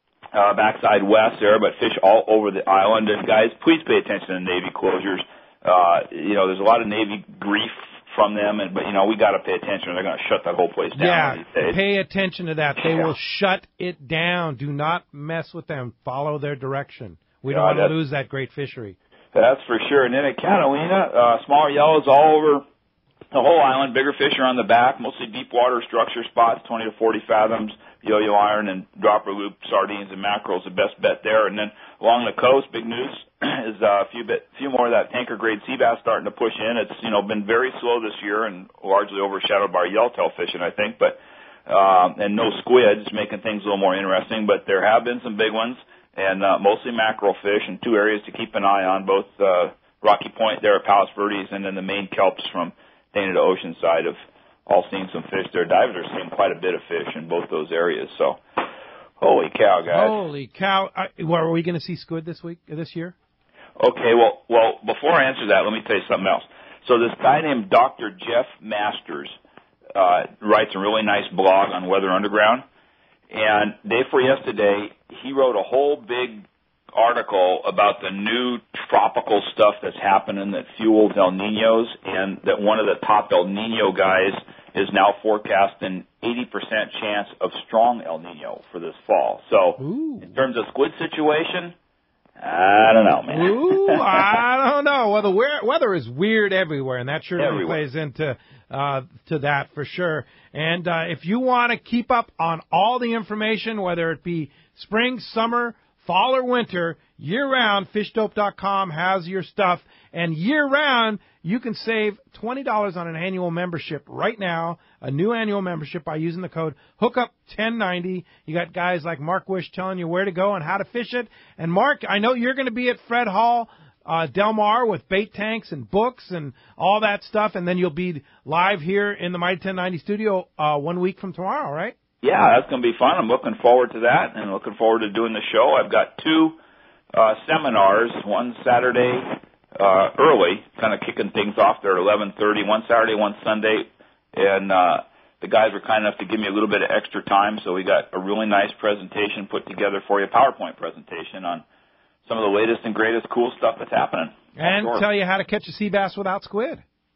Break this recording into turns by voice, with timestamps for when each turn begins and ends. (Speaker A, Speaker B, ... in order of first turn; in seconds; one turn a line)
Speaker A: 0.3-11.8
Speaker B: 10.9-19.0
Speaker A: 12.8-13.1
Speaker A: 17.5-17.9
Speaker A: 19.3-22.6
Speaker A: 23.3-54.1
Speaker A: 54.7-58.4
Speaker A: 59.2-60.2
Speaker B: 59.9-63.1
Speaker A: 63.8-69.4
Speaker A: 69.9-72.6
Speaker A: 73.3-91.7
Speaker B: 89.8-90.3
Speaker A: 92.4-94.4
Speaker B: 93.3-131.9
Speaker A: 97.4-97.8
Speaker A: 132.2-136.6
Speaker A: 137.1-151.6
Speaker A: 152.2-155.0
Speaker B: 154.6-156.8